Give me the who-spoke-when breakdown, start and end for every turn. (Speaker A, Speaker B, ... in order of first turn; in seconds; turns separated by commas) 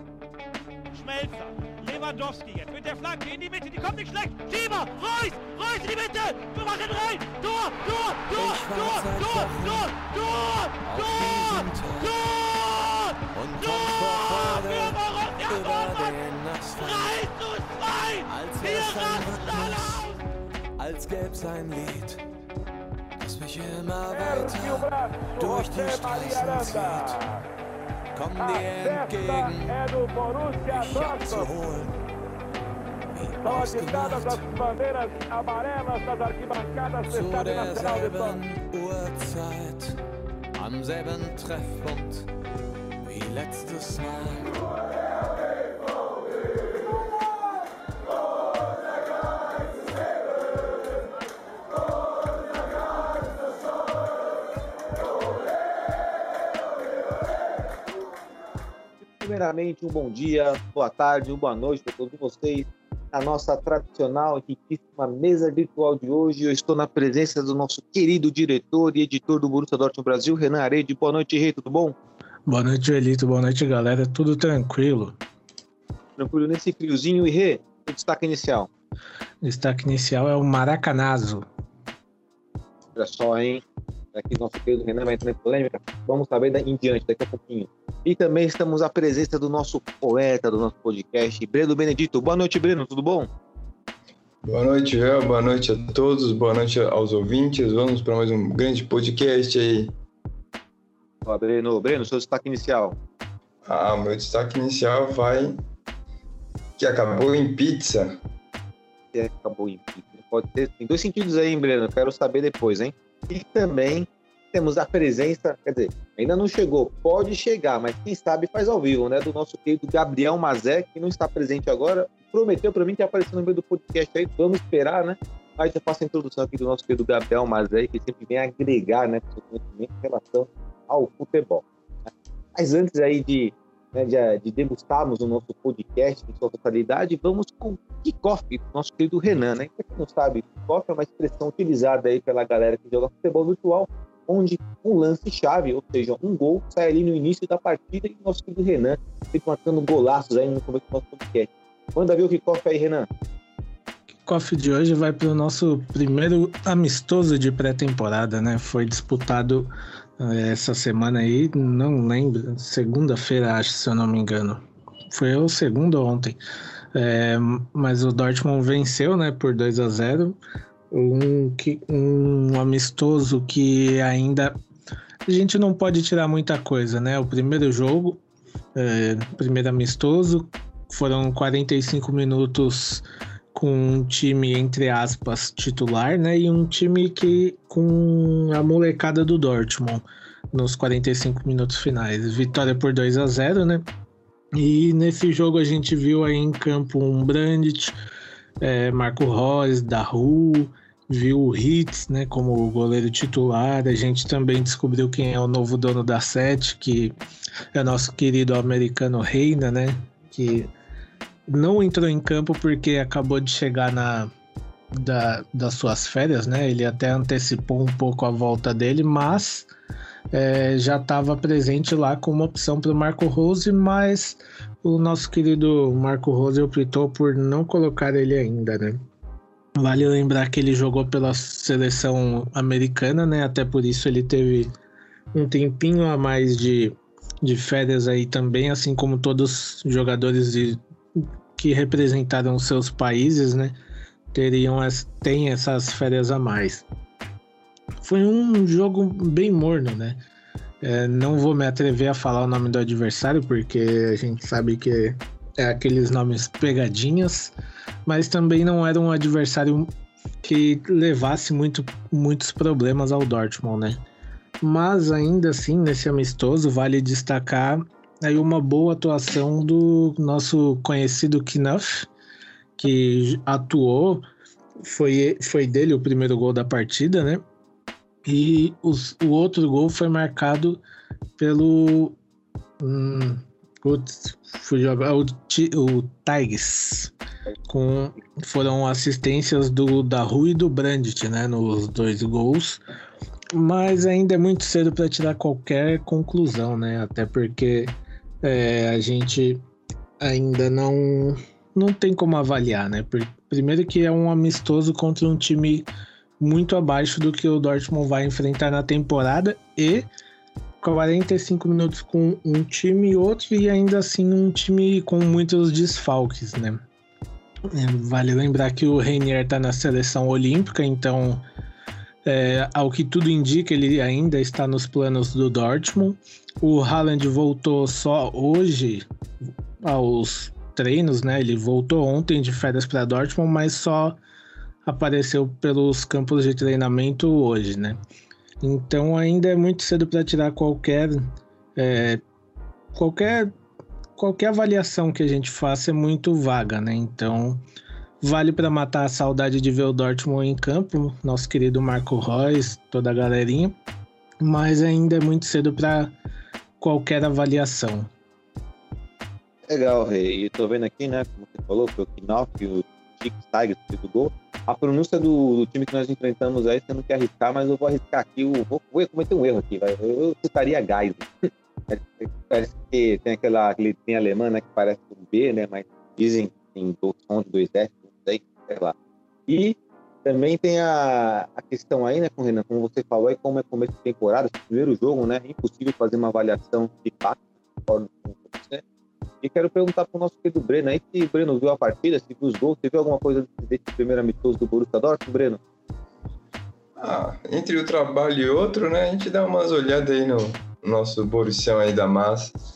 Speaker A: 0.9-12.8, Speaker B: 8.3-10.0, Speaker B: 10.8-12.5, Speaker B: 13.3-17.3, Speaker A: 13.6-16.1, Speaker A: 16.8-19.9, Speaker B: 18.2-20.2, Speaker B: 20.8-22.2, Speaker B: 23.2-27.3, Speaker A: 24.1-27.2, Speaker B: 28.1-29.8, Speaker A: 28.4-31.5, Speaker B: 30.5-31.9, Speaker B: 33.1-34.7, Speaker A: 33.4-38.4, Speaker B: 37.0-40.0, Speaker B: 40.5-42.3, Speaker B: 43.0-44.7, Speaker C: 59.0-72.0, Speaker D: 72.5-75.2, Speaker C: 76.2-78.7, Speaker D: 79.4-81.5, Speaker C: 83.0-93.3, Speaker E: 94.4-100.0, Speaker C: 101.3-103.0, Speaker E: 103.7-105.6, Speaker E: 106.8-108.2, Speaker C: 109.1-153.1, Speaker D: 154.3-166.4, Speaker D: 166.9-170.4, Speaker D: 170.9-174.6, Speaker D: 175.3-178.2, Speaker D: 178.8-193.8, Speaker D: 194.6-197.9, Speaker D: 198.6-207.1, Speaker D: 207.7-210.7, Speaker D: 211.5-214.3, Speaker D: 214.9-219.7, Speaker D: 220.3-229.0, Speaker D: 229.8-234.7, Speaker D: 235.3-243.8, Speaker D: 244.3-246.8, Speaker D: 248.0-250.2, Speaker D: 250.8-257.5, Speaker D: 258.1-259.9, Speaker D: 260.4-264.0, Speaker D: 264.6-272.1, Speaker D: 272.8-274.2, Speaker D: 274.8-277.4, Speaker D: 278.2-280.8, Speaker D: 281.4-282.2, Speaker D: 282.8-287.1, Speaker D: 287.7-292.8, Speaker D: 293.5-299.6, Speaker D: 300.2-305.9, Speaker D: 306.4-310.1, Speaker D: 310.8-316.8, Speaker D: 317.7-321.4, Speaker D: 322.2-329.1, Speaker D: 329.8-334.2, Speaker D: 334.9-338.0, Speaker D: 338.6-342.2, Speaker D: 342.9-343.5, Speaker D: 344.2-347.6, Speaker D: 348.2-353.8, Speaker D: 354.4-356.1, Speaker D: 356.8-358.1, Speaker C: 359.7-378.9, Speaker C: 379.5-388.8, Speaker C: 389.4-395.6, Speaker E: 397.0-402.6